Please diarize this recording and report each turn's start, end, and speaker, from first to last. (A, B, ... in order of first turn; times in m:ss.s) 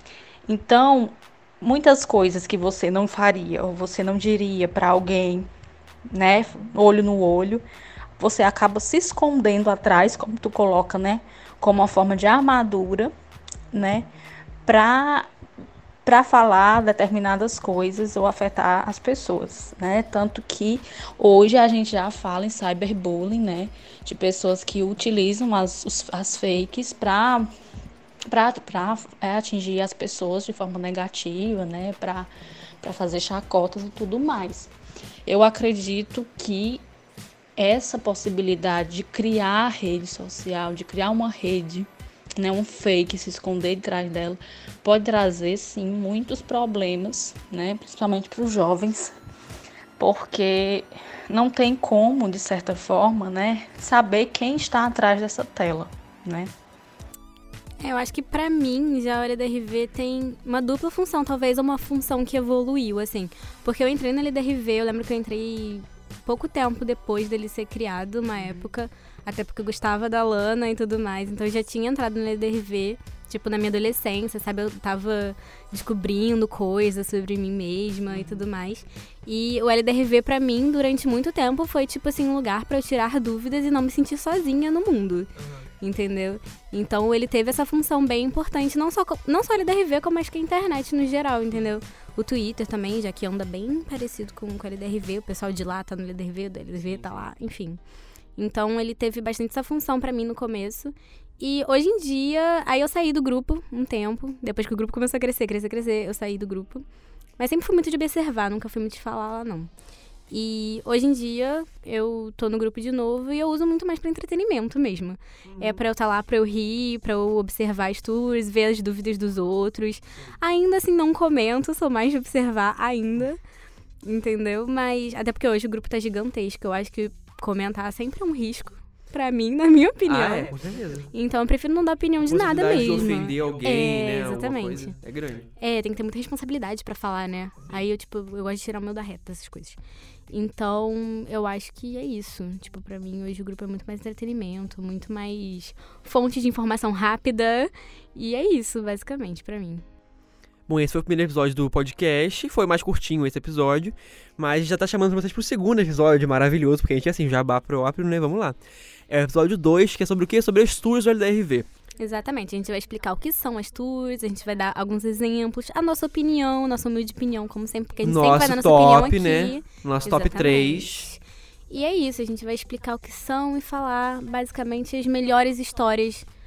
0:00.5-0:05.5 A
0:06.1-0:07.6 A
0:08.2-0:13.1 A
0:13.7-0:14.1 A
0:14.7-0:15.3 A
0:16.0-0:27.5 A
0:28.3-0:32.3 A
0:32.8-0:34.7 A
0:35.3-0:36.8 A
0:37.6-0:49.1 A
0:50.0-0:56.5 A
0:57.8-1:37.8 B
1:18.1-1:18.4 C
1:38.4-1:46.8 B
1:47.4-1:49.7 B
1:50.3-2:03.4 B
1:55.4-1:55.8 C
2:04.0-2:10.5 B
2:10.0-2:11.1 C
2:11.1-2:15.0 B
2:12.2-2:15.5 C
2:15.6-2:29.8 B
2:30.7-2:38.6 C
2:39.1-2:41.7 C
2:42.0-2:56.3 B
2:48.0-2:51.1 C